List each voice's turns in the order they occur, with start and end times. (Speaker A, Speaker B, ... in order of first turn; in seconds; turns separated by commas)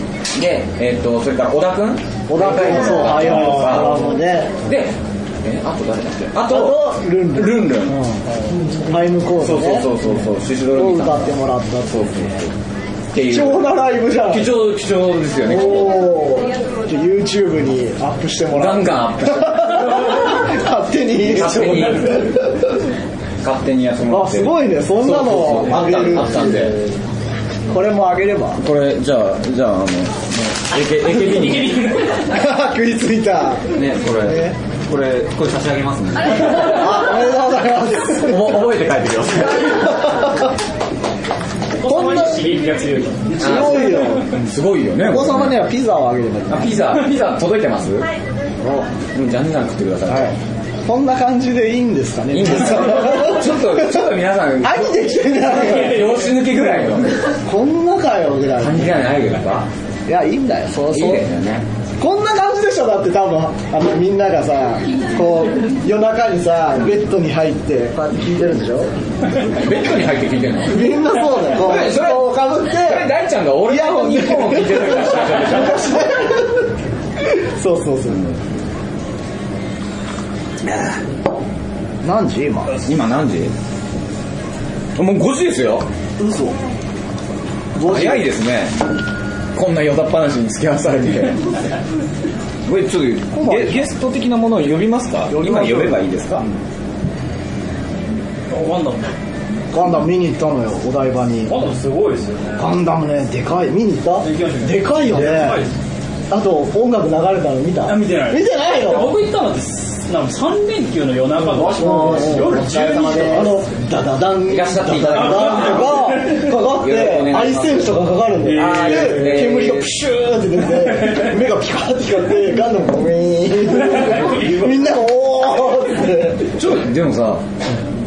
Speaker A: 0.3-4.0, Speaker B: 2.3-4.6, Speaker A: 4.6-8.0, Speaker B: 6.5-9.9, Speaker A: 9.4-11.4, Speaker B: 10.7-12.3, Speaker A: 11.9-12.5, Speaker A: 13.1-16.0, Speaker B: 13.3-14.5, Speaker B: 15.5-22.7, Speaker A: 18.5-20.1, Speaker A: 21.2-22.4, Speaker A: 23.4-26.8, Speaker B: 24.1-26.7, Speaker B: 27.7-28.6, Speaker A: 28.6-32.0, Speaker C: 31.6-32.0, Speaker B: 32.3-34.6, Speaker A: 33.7-36.9, Speaker B: 36.6-38.4, Speaker A: 38.1-40.0, Speaker B: 40.0-40.4, Speaker C: 41.8-44.1, Speaker B: 41.9-42.5, Speaker B: 43.4-44.5, Speaker A: 43.4-45.6, Speaker B: 45.0-46.8, Speaker A: 46.5-48.1, Speaker B: 48.6-48.9, Speaker A: 49.1-50.4, Speaker B: 50.1-50.4, Speaker B: 50.9-53.7, Speaker A: 52.3-57.4, Speaker B: 54.6-56.2, Speaker B: 57.5-59.0, Speaker A: 58.6-59.7, Speaker B: 60.1-61.2, Speaker A: 60.9-61.7, Speaker B: 62.0-68.9, Speaker A: 69.4-75.9, Speaker B: 70.7-73.1, Speaker B: 73.6-76.7, Speaker B: 77.2-78.3, Speaker A: 80.6-81.0, Speaker B: 82.0-82.7, Speaker A: 82.7-83.5, Speaker A: 85.0-85.9, Speaker B: 86.2-86.6, Speaker B: 87.8-88.3, Speaker A: 87.8-88.8, Speaker A: 89.5-91.5, Speaker A: 92.7-96.5, Speaker B: 93.3-93.9, Speaker B: 95.3-96.6, Speaker C: 98.5-99.1, Speaker B: 99.7-101.5, Speaker C: 101.5-102.7, Speaker B: 102.6-105.6, Speaker C: 104.2-105.7, Speaker B: 106.3-109.2, Speaker C: 107.8-113.6, Speaker B: 111.5-126.5, Speaker A: 112.5-113.3, Speaker A: 114.5-119.9, Speaker C: 115.4-115.9, Speaker C: 118.5-119.1, Speaker A: 126.5-127.4